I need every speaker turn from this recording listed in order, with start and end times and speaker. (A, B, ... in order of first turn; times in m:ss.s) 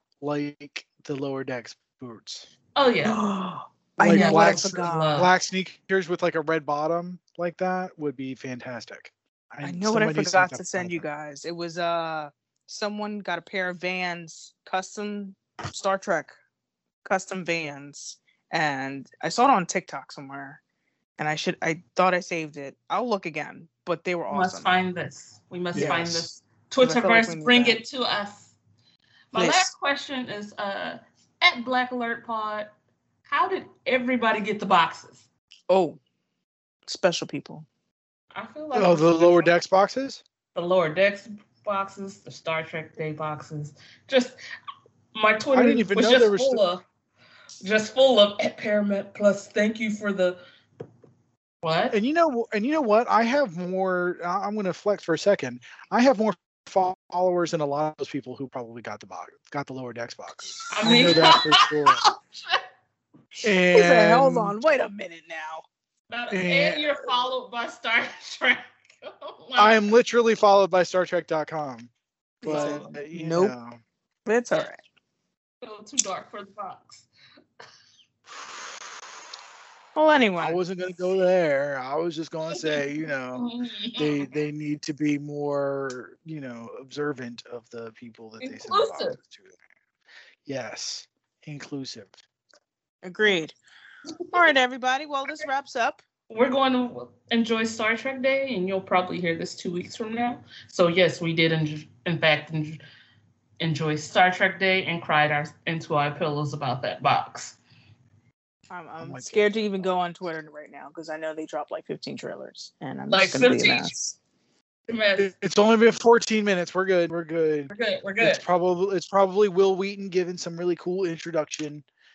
0:00.2-0:02.4 A
0:02.8-0:03.2 B
0:03.0-0:05.3 C
0:04.0-0:11.0 A
0:04.1-0:05.3 B
0:09.6-0:16.4 C
0:17.0-0:20.6 C
0:21.2-0:24.7 C
0:24.3-0:28.5 B
0:25.7-0:26.3 A
0:25.7-0:26.0 C
0:26.8-0:27.8 C
0:29.3-0:32.7 B
0:29.3-0:29.7 C
0:33.3-0:35.2 B
0:35.7-0:36.0 C
0:36.9-0:37.6 C
0:38.3-0:39.5 B
0:38.7-0:40.2 A
0:40.5-0:44.4 B
0:45.1-0:46.8 B
0:45.5-0:46.6 A
0:47.6-0:50.4 B
0:51.6-0:52.0 B
0:51.9-1:02.0 A
1:00.7-1:02.6 B
1:00.8-1:01.1 C
1:03.4-1:04.5 A
1:03.7-1:05.6 C
1:06.1-1:09.8 B
1:06.3-1:07.1 A
1:09.6-1:11.9 A
1:12.4-1:13.5 C
1:12.4-1:13.8 A
1:12.4-1:12.8 B
1:14.3-1:14.8 C
1:15.6-1:17.1 B
1:18.3-1:18.9 A
1:19.9-1:20.6 C
1:20.4-1:29.5 A
1:22.5-1:22.8 B
1:23.3-1:24.3 B
1:28.4-1:29.2 B
1:30.4-1:32.2 A
1:33.0-1:33.6 C
1:34.3-1:36.0 C
1:36.3-1:42.8 B
1:43.6-1:47.6 B
1:48.7-1:54.2 C
1:49.0-1:49.6 A
1:53.1-1:53.9 B
1:54.9-1:55.3 B
1:55.2-2:01.8 A
1:57.7-1:58.4 B